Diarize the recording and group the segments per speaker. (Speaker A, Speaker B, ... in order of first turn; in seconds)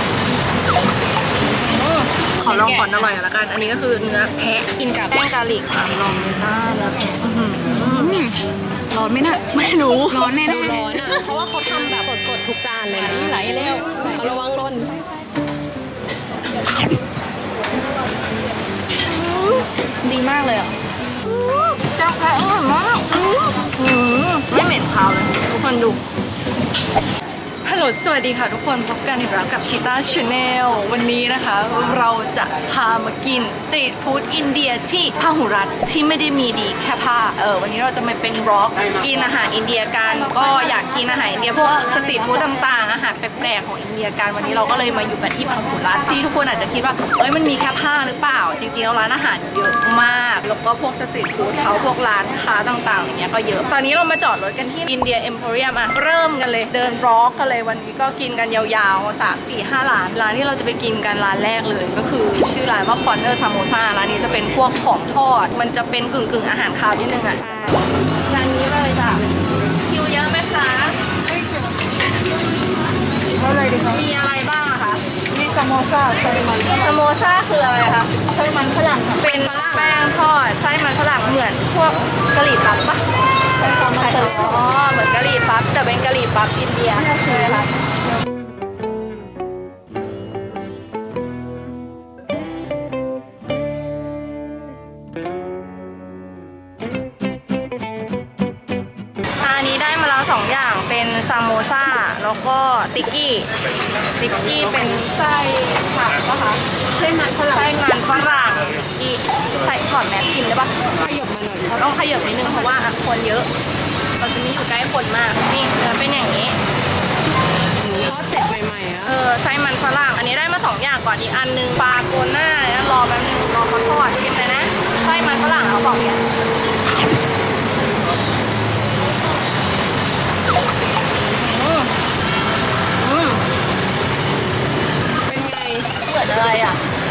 Speaker A: 1.6-8.2, 9.5-10.4, 19.1-19.7, 21.2-26.0, 27.6-67.4, 68.2-71.0, 73.6-75.0, 76.6-78.2, 79.1-83.0, 83.8-87.7, 99.4-103.5, 104.2-106.6, 107.3-110.7, 111.7-113.5, 114.2-116.6, 119.0-126.2, 131.3-131.9, 133.0-133.4, 136.0-136.8
Speaker B: 2.5-3.2, 4.8-5.2, 7.8-8.4, 8.9-9.4, 10.1-11.0, 12.9-14.1, 20.0-20.7, 73.4-73.9, 75.3-76.7, 78.3-79.2, 83.6-84.6, 107.0-107.4
Speaker C: 10.4-14.9, 67.4-67.8, 79.2-80.0, 84.1-84.6, 87.1-87.6, 111.0-111.7, 117.8-119.1, 135.2-135.9